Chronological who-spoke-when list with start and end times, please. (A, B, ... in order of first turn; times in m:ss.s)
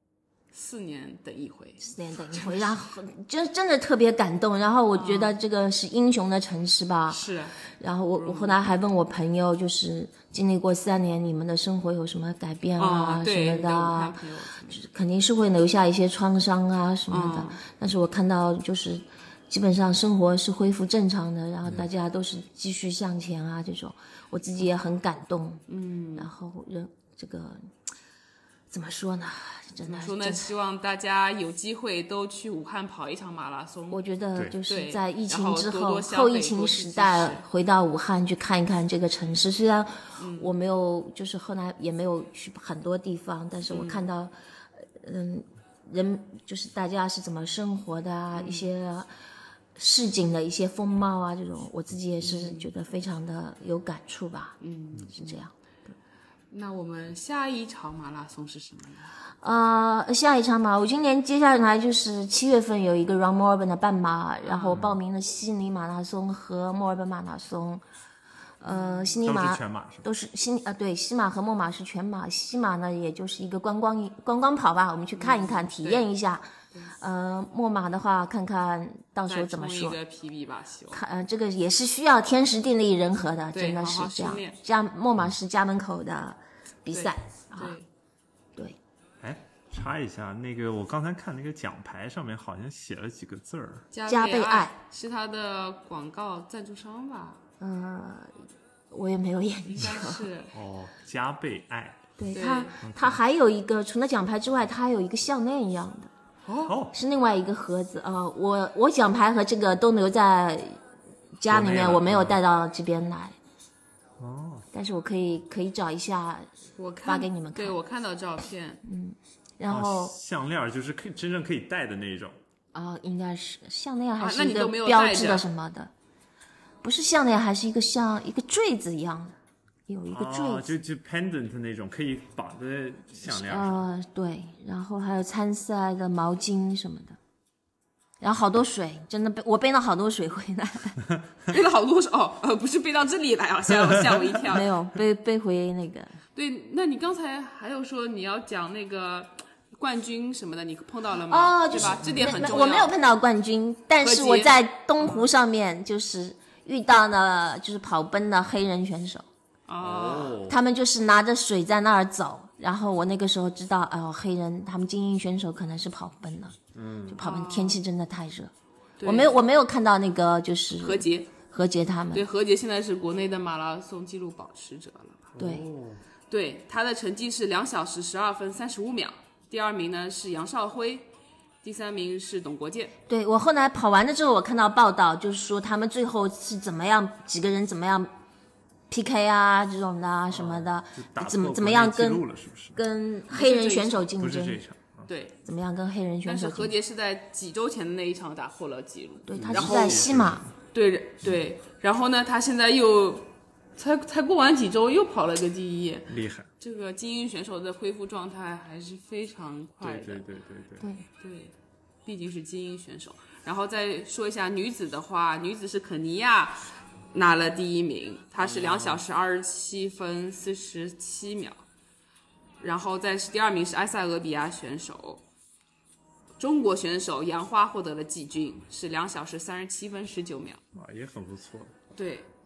0:00.5-0:02.8 A
0:01.8-0:14.2 B
0:04.9-0:05.4 A
0:07.1-0:07.6 A
0:08.2-0:08.6 A
0:12.8-0:14.8 A
0:14.7-0:25.6 B
0:17.1-0:17.6 A
0:25.7-0:26.3 A
0:26.2-0:27.7 B
0:28.7-0:30.5 B
0:29.8-0:34.0 A
0:33.9-0:44.3 B
0:34.7-0:37.4 A
0:40.2-0:40.5 A
0:43.7-0:44.1 A
0:45.0-0:49.1 B
0:48.3-0:48.7 A
0:49.8-0:54.6 B
0:52.2-0:52.7 A
0:54.6-0:55.4 A
0:55.1-0:55.5 B
0:56.5-0:59.1 A
0:59.4-1:07.8 B
1:04.4-1:04.8 A
1:04.7-1:05.0 C
1:08.6-1:20.0 B
1:08.6-1:09.1 A
1:09.2-1:10.0 C
1:15.2-1:16.1 A
1:19.3-1:21.0 A
1:20.9-1:27.8 B
1:23.5-1:24.6 A
1:26.9-1:27.9 A
1:29.2-1:33.9 C
1:33.9-1:37.4 A
1:34.1-1:34.7 B
1:37.6-1:38.4 B
1:38.9-1:40.3 B
1:39.6-1:40.5 A
1:40.5-1:42.1 C
1:42.2-1:46.1 B
1:42.3-1:42.8 A
1:42.8-1:43.2 C
1:46.4-1:46.7 A
1:46.6-1:46.9 C
1:46.9-1:50.8 B
1:51.4-1:53.4 B
1:51.5-1:52.4 C
1:54.2-1:54.7 C
1:54.7-1:56.5 B
1:56.8-1:58.8 A
1:57.0-1:57.8 B
1:58.8-2:00.2 B
1:59.7-2:02.4 C
2:02.7-2:05.9 B
2:04.2-2:05.5 A
2:06.8-2:09.4 B
2:09.9-2:10.7 B
2:10.1-2:13.8 C
2:13.2-2:17.2 B
2:18.2-2:21.0 B
2:21.5-2:24.7 A
2:23.7-2:24.4 C
2:24.4-2:26.2 B
2:26.4-2:33.0 A
2:31.3-2:39.3 B
2:34.0-2:35.3 A
2:39.7-2:40.4 A
2:39.8-2:40.6 C
2:40.5-2:46.6 B
2:46.7-2:47.2 C
2:47.1-2:48.5 B
2:47.2-2:47.8 A
2:49.0-2:49.4 A
2:49.0-2:52.2 B
2:50.8-2:51.3 A
2:52.1-2:55.2 A
2:55.3-2:56.0 C
2:55.4-2:55.7 B
2:56.3-3:01.1 A
3:01.6-3:02.9 A
3:03.1-3:08.1 B
3:08.9-3:14.6 B
3:10.3-3:12.8 C
3:13.3-3:14.1 A
3:14.2-3:15.1 C
3:15.1-3:15.4 A
3:15.4-3:16.7 B
3:16.2-3:20.1 A
3:19.3-3:20.4 B
3:19.3-3:20.5 C
3:20.7-3:30.3 A
3:26.1-3:26.5 C
3:29.8-3:30.9 C
3:30.8-3:31.1 B
3:31.2-3:31.5 A
3:32.1-3:41.6 A
3:38.4-3:39.0 C
3:42.6-3:45.2 A
3:46.4-3:50.6 A
3:50.7-3:51.7 C
3:51.9-3:52.3 A